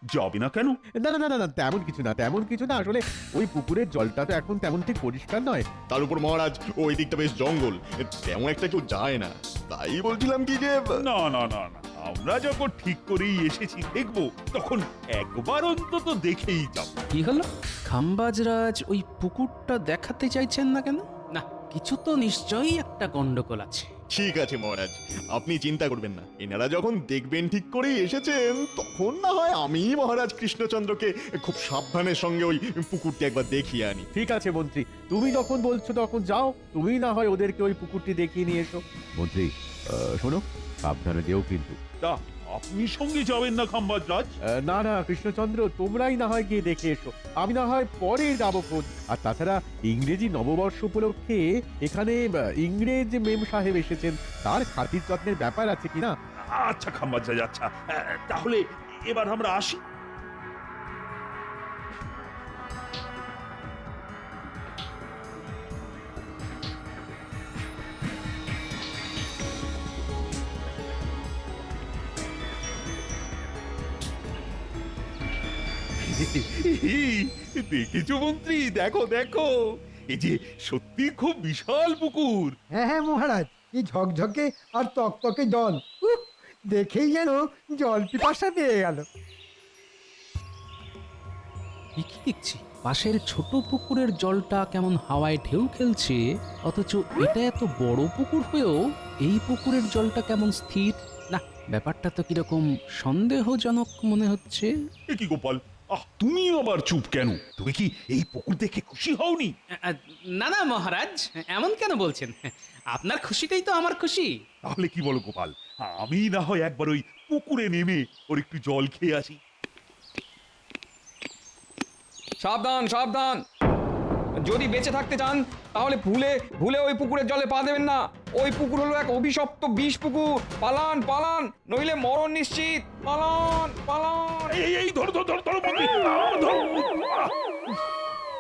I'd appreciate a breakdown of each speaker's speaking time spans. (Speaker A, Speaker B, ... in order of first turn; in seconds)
Speaker A: 0.1-0.8, 11.0-16.9, 42.0-44.3, 56.4-59.8, 76.1-79.5, 80.1-82.6, 105.1-109.5, 114.7-119.4, 134.5-137.8
Speaker B: 1.0-5.7, 34.1-41.8, 44.6-56.1
Speaker C: 5.9-10.8, 24.1-34.1
Speaker D: 17.1-23.9, 92.0-104.7, 109.8-114.3
Speaker E: 82.8-89.0
Speaker F: 122.4-123.4, 124.4-134.6